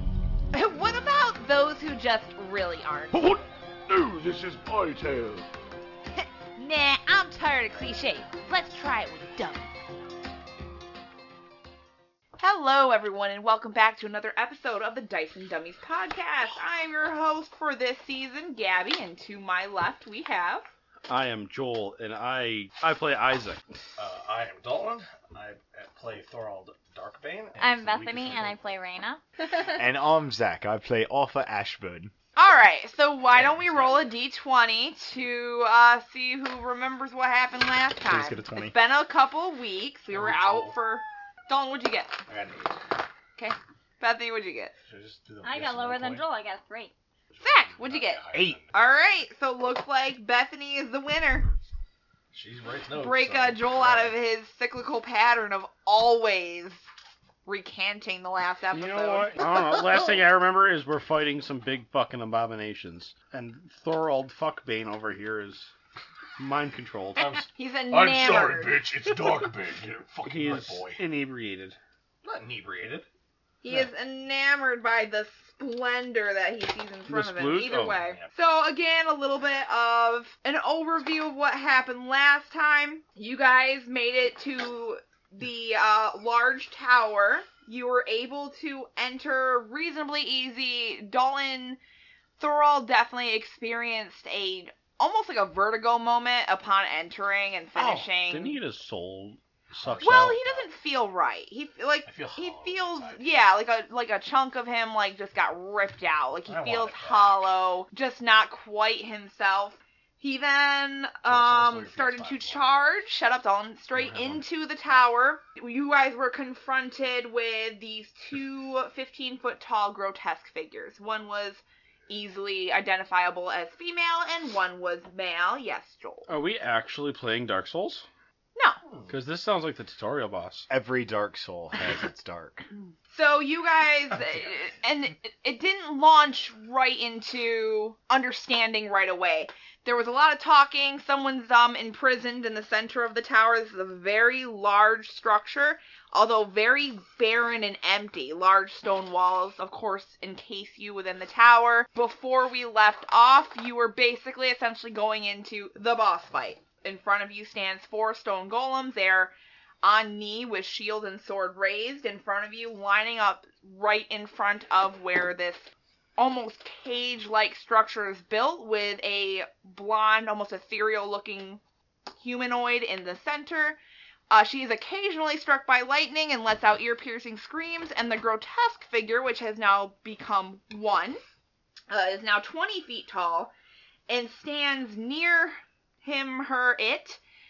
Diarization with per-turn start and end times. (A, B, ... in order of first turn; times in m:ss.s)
0:00.5-0:03.2 A
0:03.1-0:05.5 B
0:06.2-0:09.7 A
0:12.4-0:20.7 A
0:21.1-0:23.6 C
0:24.0-0:28.6 D
0:27.6-0:29.2 E
0:29.5-0:32.1 F
0:32.4-0:42.2 A
0:33.2-0:34.1 D
0:38.0-0:38.8 F
0:40.1-0:40.8 D
0:42.3-0:42.7 D
0:43.4-0:44.7 A
0:44.8-0:46.2 D
0:45.4-0:46.9 E
0:47.3-0:48.7 D
0:47.4-0:51.5 A
0:48.3-0:48.6 F
0:52.3-0:54.2 D
0:52.9-0:56.8 A
0:57.4-0:59.4 A
0:58.7-1:05.7 C
1:06.4-1:07.4 C
1:07.2-1:07.5 D
1:07.5-1:08.8 A
1:07.9-1:10.2 B
1:10.2-1:11.0 D
1:10.2-1:11.8 C
1:12.2-1:13.1 D
1:13.6-1:31.8 A
1:17.1-1:18.0 C
1:18.0-1:18.3 D
1:32.4-1:38.6 A
1:37.8-1:40.4 C
1:39.7-1:40.7 D
1:40.0-2:06.3 A
1:42.0-1:43.3 D
1:46.5-1:47.4 D
1:51.2-1:53.0 D
1:54.1-1:54.4 D
2:06.3-2:08.1 C
2:08.6-2:08.8 A
2:08.8-2:09.1 D
2:09.1-2:10.7 C
2:10.7-2:12.6 F
2:13.1-2:51.6 A
2:52.2-2:53.8 A
2:54.3-3:01.2 A
3:01.9-3:03.5 A
3:04.1-3:07.2 A